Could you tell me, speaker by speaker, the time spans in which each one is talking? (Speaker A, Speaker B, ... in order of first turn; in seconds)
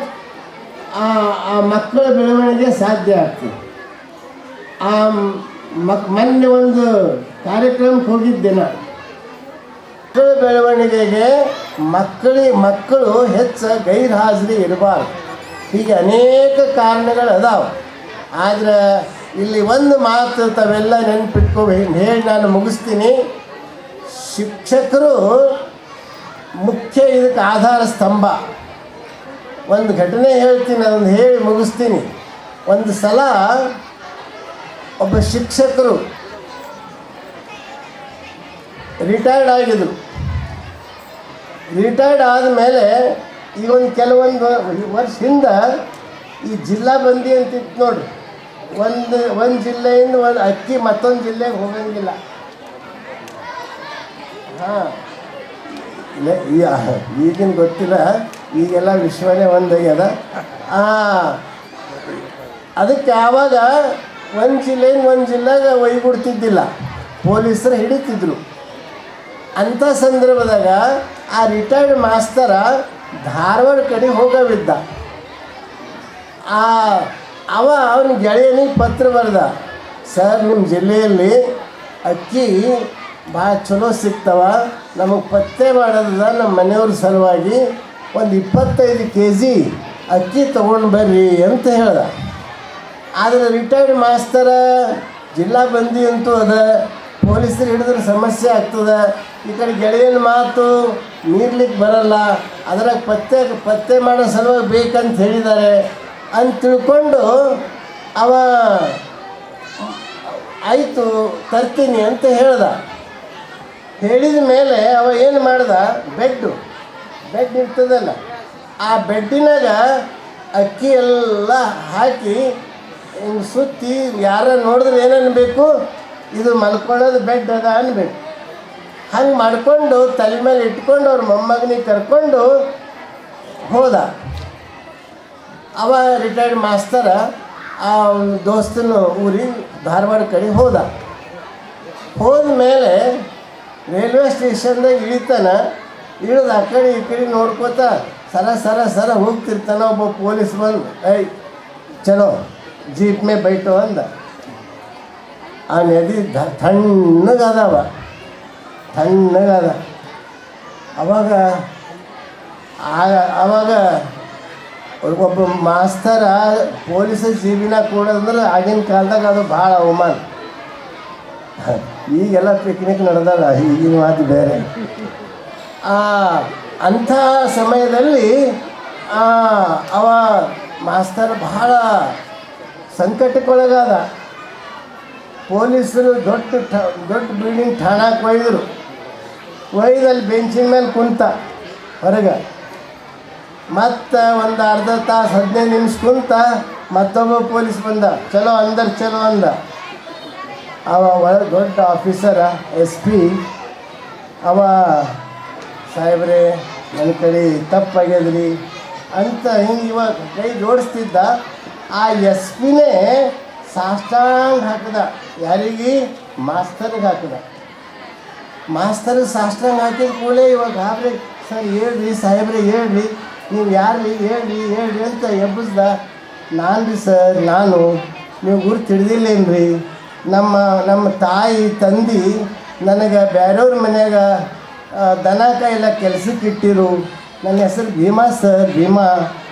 Speaker A: 1.0-3.5, 4.8-6.9, 7.4-8.7, 10.1-11.3, 11.9-15.1, 15.7-17.7, 18.4-18.8, 19.4-23.1, 24.1-25.2, 26.6-28.4, 29.7-32.1, 32.7-33.3, 35.0-36.0, 39.0-39.9, 41.7-42.9, 43.6-45.6, 46.4-48.0, 48.8-52.2, 54.5-55.0, 55.7-60.1, 60.6-61.4, 62.8-63.7, 64.3-66.7, 67.2-68.4, 69.6-70.8, 71.3-72.7, 73.2-74.8, 76.5-79.5, 80.1-81.3, 82.0-82.6, 83.3-87.6, 88.1-89.6, 90.1-92.1, 93.2-100.7, 101.3-105.8, 106.3-107.3, 108.2-109.0, 109.8-112.8, 114.0-116.5, 117.3-118.2, 118.8-119.8, 120.6-122.4, 123.2-125.7, 126.3-128.2, 129.1-132.4, 133.7-134.1, 135.8-137.2, 137.8-140.9, 142.2-143.0, 143.9-145.6, 146.2-151.3, 152.0-152.3, 152.9-154.1, 155.7-157.9, 158.9-159.8, 161.0-161.4, 162.8-163.8, 165.0-170.2, 171.6-174.7, 175.8-178.3, 179.1-181.8, 182.9-184.0, 185.5-188.6, 189.7-191.3, 192.0-192.4, 193.7-199.5, 200.9-203.4, 204.4-205.2, 205.9-208.5, 209.1-211.3, 211.9-217.4, 218.7-225.9, 226.5-227.9, 228.4-229.7, 230.3-234.2, 234.9-239.1